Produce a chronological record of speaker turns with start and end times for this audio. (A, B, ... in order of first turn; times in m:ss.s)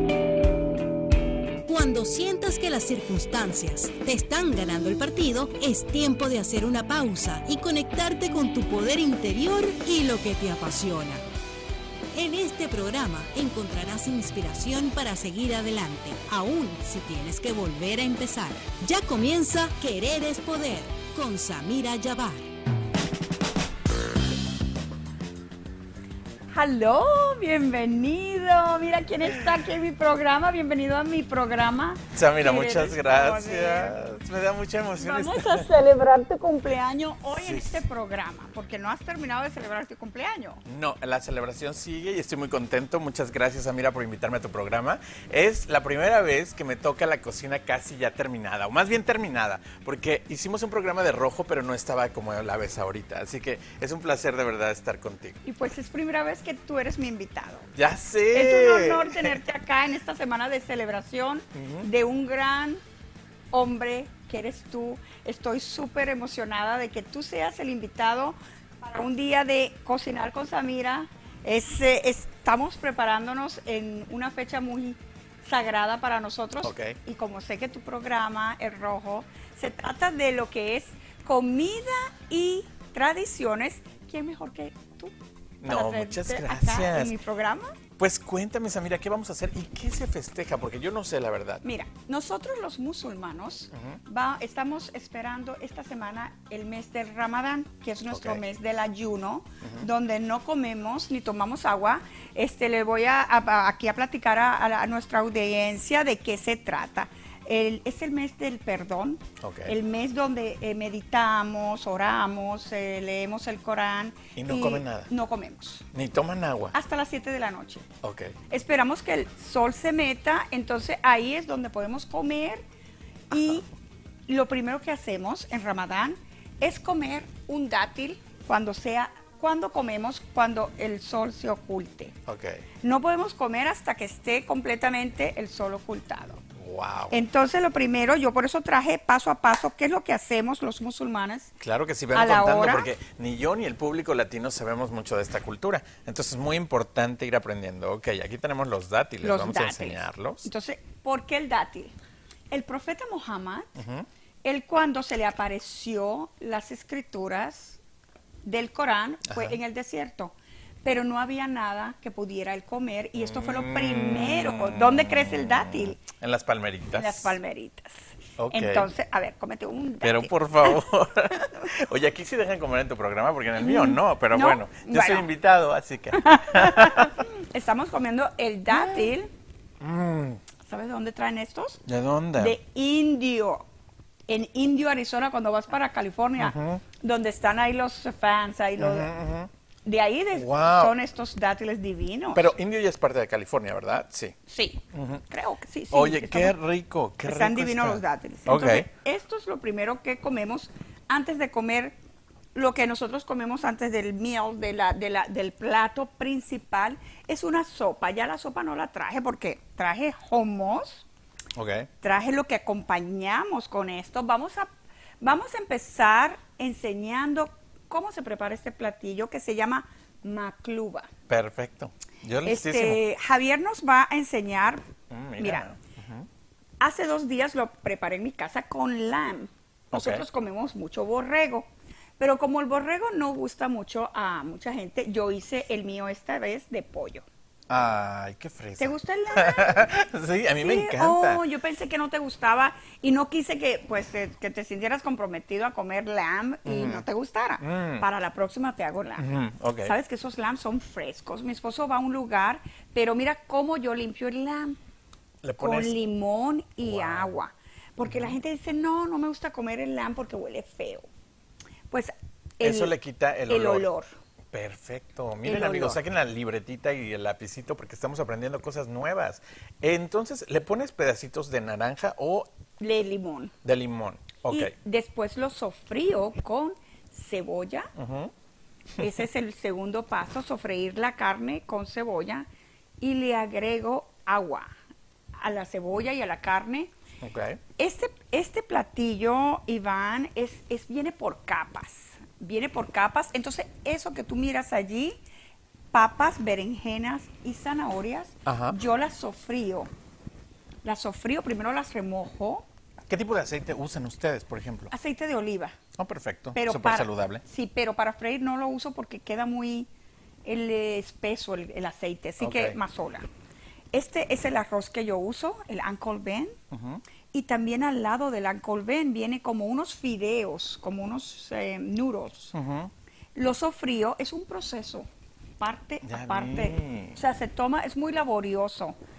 0:01.7-0:11.2 A
0:12.1-0:22.5 A
0:26.5-0:34.0 B
0:32.1-0:35.7 C
0:35.0-0:40.6 B
0:37.3-0:37.8 C
0:40.7-0:55.4 C
0:55.4-0:57.7 B
0:57.8-0:59.4 C
0:58.3-1:02.8 B
1:01.5-1:01.9 C
1:03.5-1:25.1 B
1:16.6-1:17.0 C
1:25.6-1:27.2 C
1:25.6-1:27.8 B
1:28.0-1:31.6 C
1:31.6-1:55.9 B
1:33.7-1:34.0 C
1:38.1-1:38.4 C
1:39.6-1:39.9 C
1:49.4-1:49.8 C
1:54.4-1:55.1 C
1:55.9-1:56.8 C
1:56.7-1:57.9 B
1:58.0-1:58.4 C
1:58.5-2:02.6 B
2:03.3-2:03.7 B
2:03.3-2:03.6 C
2:04.3-2:12.2 B
2:12.3-2:12.6 C
2:12.8-2:16.4 B
2:16.6-2:17.2 C
2:17.1-2:21.5 B
2:21.6-2:30.5 C
2:22.1-2:22.9 B
2:29.2-2:31.9 B
2:32.5-2:33.8 B
2:33.8-2:34.1 C
2:34.4-2:37.8 B
2:38.4-2:46.0 B
2:39.3-2:39.6 C
2:43.2-2:47.4 C
2:47.0-2:50.8 B
2:48.4-2:48.9 C
2:50.0-2:57.2 C
2:53.6-2:55.3 B
2:56.1-2:59.3 B
2:58.7-2:59.1 C
2:59.8-3:00.4 C
3:00.7-3:01.8 B
3:01.9-3:02.6 C
3:02.4-3:03.6 B
3:04.3-3:09.1 B
3:06.4-3:06.8 C
3:08.8-3:09.5 C
3:09.8-3:12.5 B
3:10.3-3:11.0 C
3:12.3-3:14.4 C
3:14.5-3:16.6 B
3:14.9-3:15.2 C
3:15.9-3:18.9 C
3:17.2-3:22.0 B
3:22.5-3:31.1 B
3:31.5-3:31.9 C
3:32.0-3:34.7 B
3:35.2-3:41.1 B
3:41.3-3:43.0 C
3:42.4-3:44.8 B
3:45.1-3:46.3 C
3:45.4-3:45.7 B
3:46.8-3:51.7 B
3:49.9-3:50.3 C
3:52.2-3:57.3 B
3:57.7-4:01.4 C
3:58.8-4:00.1 B
4:00.6-4:09.3 B
4:06.6-4:07.1 C
4:07.6-4:08.1 C
4:09.2-4:10.0 C
4:09.8-4:14.8 B
4:15.4-4:15.9 C
4:15.6-4:21.1 B
4:16.8-4:17.4 C
4:18.0-4:18.4 C
4:21.9-4:22.9 B
4:22.6-4:23.9 C
4:23.5-4:24.1 B
4:24.5-4:32.5 C
4:25.4-4:26.0 B
4:32.8-4:33.5 B
4:33.6-4:34.7 C
4:34.5-4:37.9 B
4:38.0-4:38.3 C
4:39.0-4:42.5 B
4:43.0-4:44.7 B
4:45.4-4:46.9 B
4:47.2-4:47.6 C
4:47.8-4:55.2 B
4:55.9-4:59.9 B
4:58.5-4:58.8 C
5:00.8-5:02.7 B
5:03.1-5:04.9 C
5:04.9-5:05.8 B
5:06.0-5:07.4 C
5:06.5-5:09.9 B
5:10.4-5:13.3 B
5:12.4-5:12.8 C
5:13.9-5:16.6 B
5:16.7-5:17.0 C
5:17.3-5:22.5 B
5:22.5-5:22.9 C
5:23.4-5:25.1 B
5:25.6-5:29.0 B
5:26.0-5:27.2 C